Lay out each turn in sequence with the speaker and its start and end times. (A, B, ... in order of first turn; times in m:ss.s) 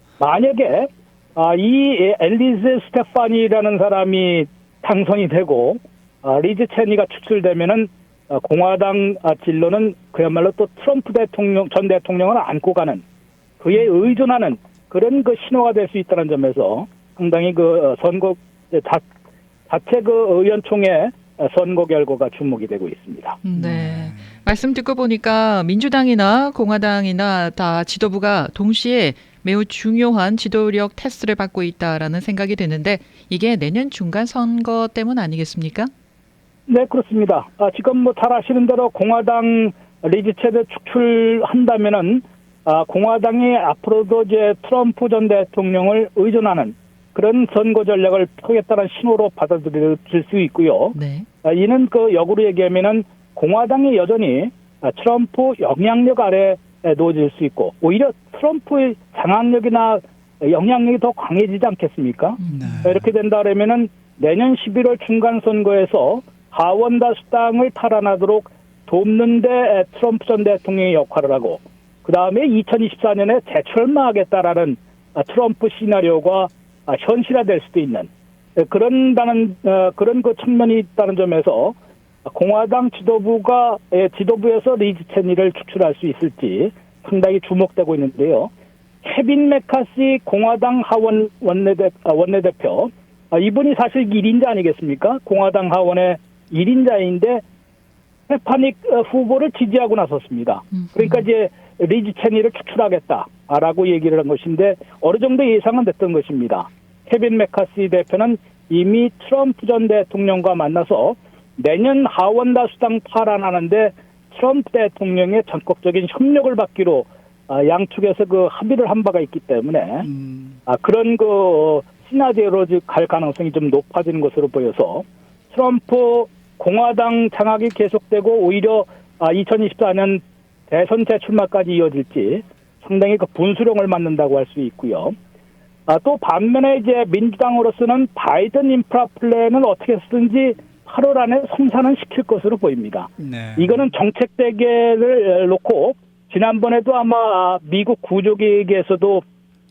0:00.2-0:13.0 A
0:13.6-0:19.0 A
0:19.7-0:23.4 A
0:23.4-0:35.9 B
0:23.6-0:24.2 C
0:36.7-1:28.5 A
0:51.0-0:51.3 B
1:02.4-1:02.8 B
1:02.5-1:03.0 C
1:29.0-1:37.4 A
1:38.3-2:00.1 A
1:40.7-1:41.2 B
2:00.1-2:00.6 C
2:00.7-2:15.1 A
2:15.9-2:29.2 A
2:23.2-2:23.9 C